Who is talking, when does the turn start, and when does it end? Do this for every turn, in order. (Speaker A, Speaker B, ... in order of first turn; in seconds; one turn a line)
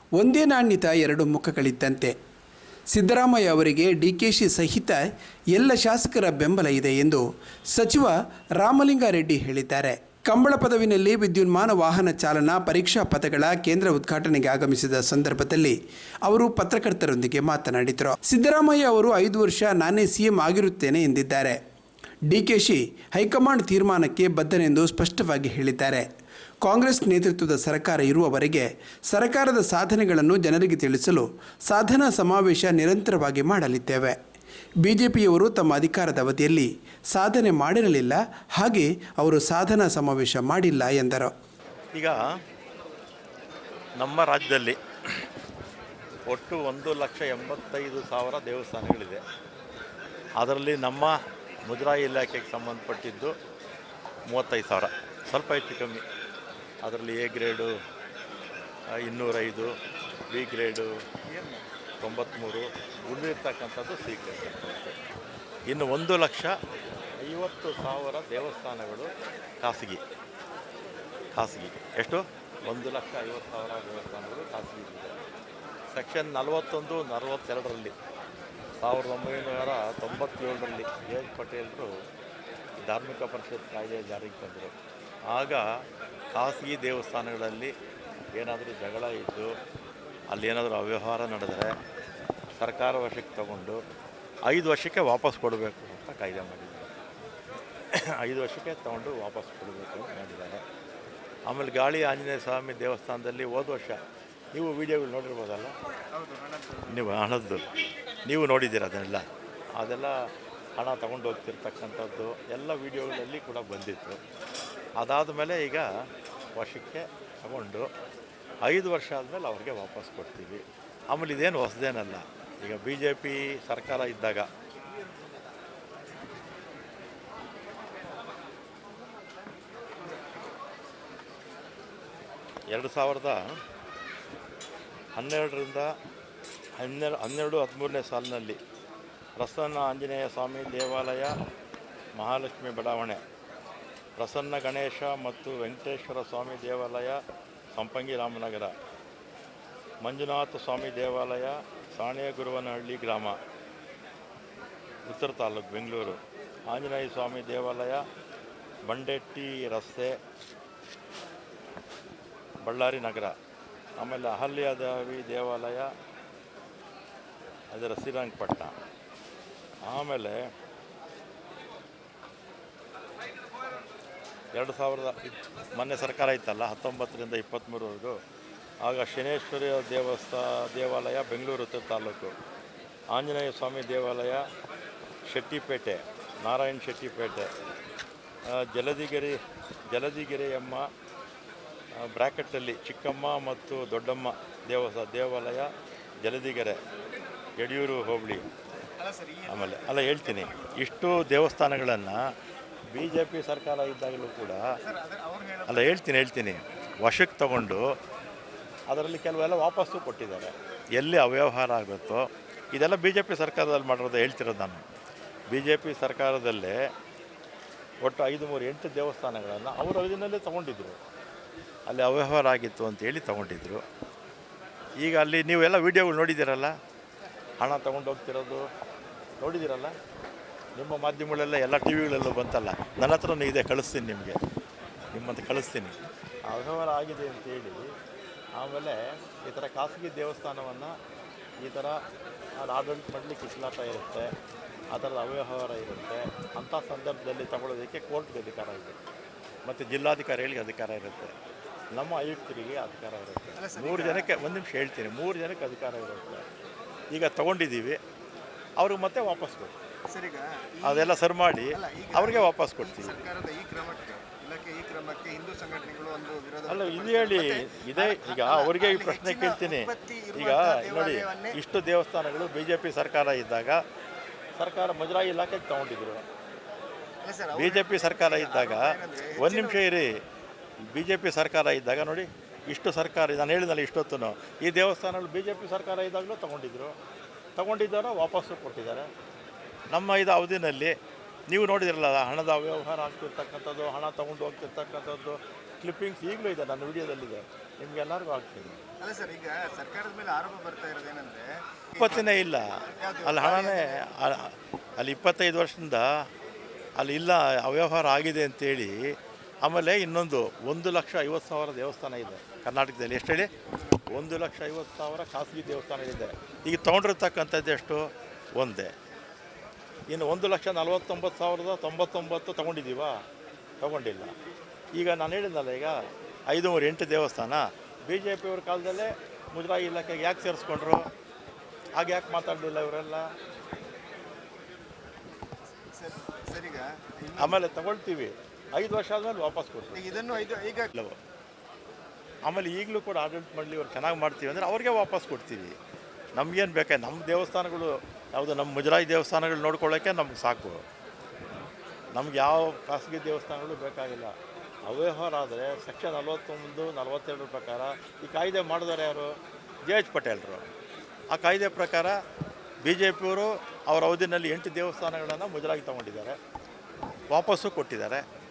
Speaker A: 0.2-2.1
Speaker A: 2.9-5.0
Speaker A: 5.5-21.6
Speaker A: 22.3-26.0
Speaker A: 26.6-34.1
Speaker A: 34.8-41.3
Speaker B: 41.9-42.3
Speaker B: 44.0-45.2
Speaker B: 46.3-49.2
Speaker B: 50.4-53.3
Speaker B: 54.3-56.0
Speaker B: 56.8-57.7
Speaker B: 59.0-59.7
Speaker B: 60.3-60.9
Speaker C: 61.3-61.6
Speaker B: 62.0-65.0
Speaker B: 65.7-66.5
Speaker B: 67.2-69.1
Speaker B: 69.6-70.0
Speaker B: 71.3-75.2
Speaker B: 75.9-77.9
Speaker B: 78.8-81.9
Speaker B: 82.8-84.7
Speaker B: 85.3-85.7
Speaker B: 86.3-87.7
Speaker B: 88.3-89.5
Speaker B: 90.3-91.7
Speaker B: 92.6-93.8
Speaker B: 94.5-96.9
Speaker B: 97.9-100.6
Speaker B: 101.5-104.0
Speaker B: 104.5-105.7
Speaker C: 106.1-106.9
Speaker B: 106.9-107.6
Speaker B: 108.3-109.2
Speaker B: 109.8-110.1
Speaker B: 110.8-114.2
Speaker B: 115.0-115.9
Speaker B: 116.5-117.9
Speaker B: 118.6-124.5
Speaker B: 132.7-133.6
Speaker B: 135.2-135.9
Speaker B: 136.8-138.6
Speaker B: 139.4-141.4
Speaker B: 142.2-143.2
Speaker B: 144.2-147.2
Speaker B: 147.7-148.7
Speaker B: 150.0-153.4
Speaker B: 155.1-156.2
Speaker B: 156.7-158.0
Speaker B: 158.8-160.2
Speaker B: 162.6-163.3
Speaker B: 164.0-165.9
Speaker B: 167.7-168.7
Speaker B: 169.8-170.4
Speaker B: 174.5-178.2
Speaker B: 178.8-182.3
Speaker B: 183.1-184.4
Speaker B: 185.3-187.5
Speaker B: 188.5-190.9
Speaker B: 192.0-195.7
Speaker B: 196.2-196.8
Speaker B: 197.6-198.5
Speaker C: 199.0-200.8
Speaker B: 199.4-202.2
Speaker B: 202.9-204.6
Speaker C: 204.8-206.0
Speaker B: 205.7-207.8
Speaker B: 208.9-214.8
Speaker B: 215.5-216.8
Speaker B: 218.0-221.0
Speaker B: 221.9-223.8
Speaker B: 225.0-226.7
Speaker B: 227.6-228.7
Speaker B: 229.4-229.9
Speaker B: 230.8-234.4
Speaker B: 235.1-237.9
Speaker B: 238.6-241.0
Speaker B: 241.6-242.0
Speaker B: 242.6-244.3
Speaker B: 244.9-249.0
Speaker B: 249.7-251.3
Speaker B: 251.9-256.4
Speaker C: 253.6-254.3
Speaker B: 257.1-258.0
Speaker B: 258.8-259.7
Speaker C: 260.1-261.2
Speaker B: 260.8-263.2
Speaker C: 261.7-271.6
Speaker B: 266.6-273.8
Speaker B: 274.6-276.2
Speaker C: 277.2-279.8
Speaker B: 277.6-280.1
Speaker B: 280.9-286.9
Speaker B: 287.6-289.1
Speaker B: 289.9-290.9
Speaker B: 291.5-298.8
Speaker C: 299.0-304.1
Speaker B: 301.9-302.7
Speaker B: 303.2-306.1
Speaker B: 307.0-309.0
Speaker B: 309.6-313.5
Speaker B: 314.1-318.9
Speaker B: 320.1-323.2
Speaker B: 323.8-324.3
Speaker B: 325.0-326.0
Speaker B: 326.5-331.1
Speaker B: 332.0-333.3
Speaker C: 335.9-337.6
Speaker B: 337.4-341.2
Speaker C: 339.9-340.9
Speaker B: 342.4-345.8
Speaker B: 346.4-350.8
Speaker B: 352.1-354.3
Speaker B: 354.9-359.3
Speaker B: 359.9-360.6
Speaker B: 361.3-362.2
Speaker B: 362.8-366.4
Speaker B: 367.3-368.2